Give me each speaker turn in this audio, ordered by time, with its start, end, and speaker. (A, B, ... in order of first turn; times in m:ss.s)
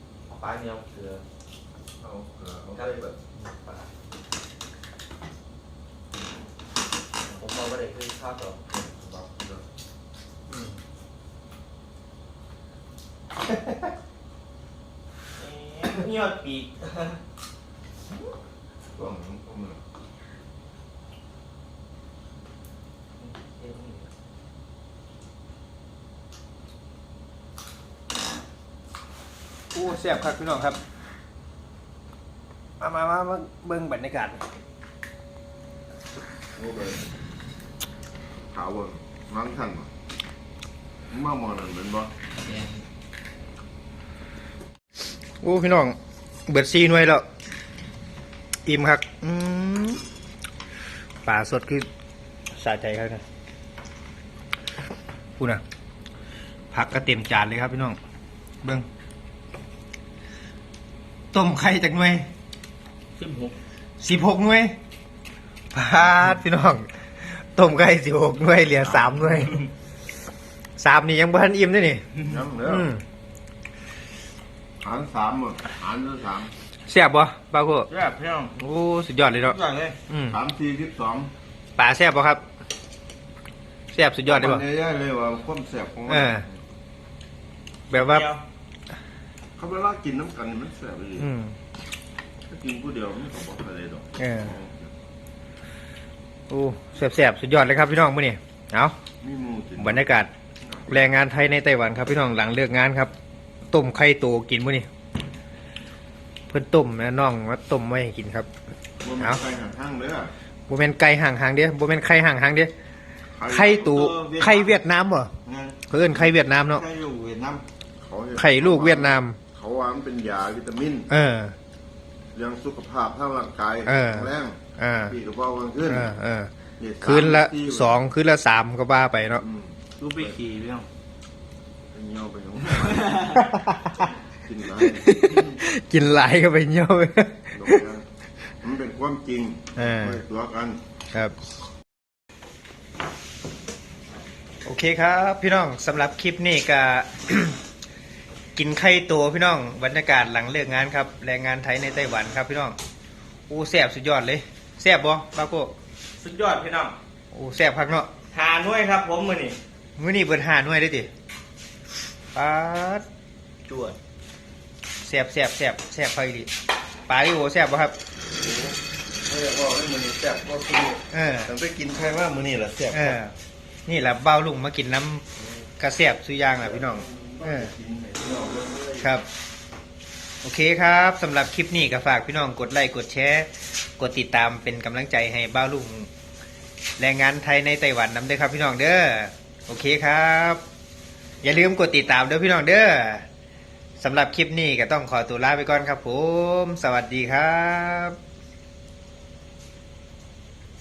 0:00.3-0:01.2 A
0:02.0-0:03.2 B
0:02.8-0:03.9 A
0:07.3-0:08.6 A
0:08.7-0:09.6 B
0:10.5-0:10.8 C
0:15.4-0:17.2 A
0:19.0-0:19.8 B
0:23.2-0:24.1 A
0:29.7-0:30.8 C
0:32.8-0:34.4 C
0:36.6-0:37.0 B
0:38.5-0:39.9 B
0:41.1-0:42.1 B
0:42.4-0:42.8 A
0:45.4-0:47.3 C
0:48.7-0:50.0 C
0:51.2-0:51.9 C
0:52.5-0:53.2 C
0:55.4-0:55.6 C
0:56.7-0:58.0 C
1:01.3-1:02.3 C
1:03.2-1:03.6 A
1:04.0-1:04.8 C
1:05.7-1:09.6 C
1:08.9-1:09.6 A
1:10.8-1:12.1 C
1:12.3-1:12.9 B
1:12.7-1:13.0 C
1:14.8-1:16.5 B
1:16.9-1:17.9 C
1:17.9-1:18.6 A
1:18.6-1:19.6 C
1:19.4-1:20.0 A
1:20.1-1:20.4 C
1:20.3-1:21.3 B
1:21.8-1:22.4 C
1:23.9-1:24.6 C
1:24.3-1:26.6 B
1:26.1-1:26.4 C
1:27.9-1:28.3 C
1:27.9-1:28.4 A
1:29.6-1:31.3 B
1:31.2-1:31.6 C
1:32.5-1:34.9 B
1:34.2-1:34.5 C
1:36.5-1:39.0 C
1:39.2-1:41.2 B
1:39.8-1:40.3 C
1:40.9-1:43.1 C
1:43.7-1:44.9 C
1:46.5-1:48.5 C
1:49.0-1:50.3 B
1:50.7-1:52.7 C
1:53.3-1:54.2 B
1:53.5-1:55.3 C
1:53.7-1:54.8 A
1:55.4-1:57.6 A
1:55.9-1:56.8 C
1:58.0-2:01.1 B
1:58.4-1:59.4 C
2:01.1-2:01.6 C
2:02.4-2:06.1 B
2:03.9-2:05.2 C
2:05.9-2:09.4 C
2:06.8-2:08.0 B
2:09.3-2:10.4 B
2:10.0-2:10.9 A
2:11.9-2:13.4 B
2:12.7-2:13.4 A
2:13.3-2:14.1 C
2:14.0-2:15.2 B
2:14.8-2:17.8 C
2:17.5-2:18.1 B
2:18.6-2:20.8 B
2:19.8-2:20.2 C
2:24.6-2:27.6 C
2:28.6-2:32.8 C
2:33.5-2:35.7 C
2:36.2-2:37.0 A
2:37.3-2:38.1 C
2:38.3-2:39.6 A
2:40.0-2:41.1 C
2:42.3-2:43.0 C
2:43.7-2:44.0 A
2:45.0-2:46.5 C
2:47.1-2:48.0 C
2:48.3-2:53.2 B
2:51.1-2:51.5 C
2:52.9-2:53.4 C
2:53.9-2:55.3 C
2:55.8-2:57.7 C
2:56.6-2:59.1 B
2:59.0-2:59.3 C
3:00.4-3:06.1 C
3:07.0-3:10.6 C
3:11.4-3:13.3 C
3:14.0-3:18.2 C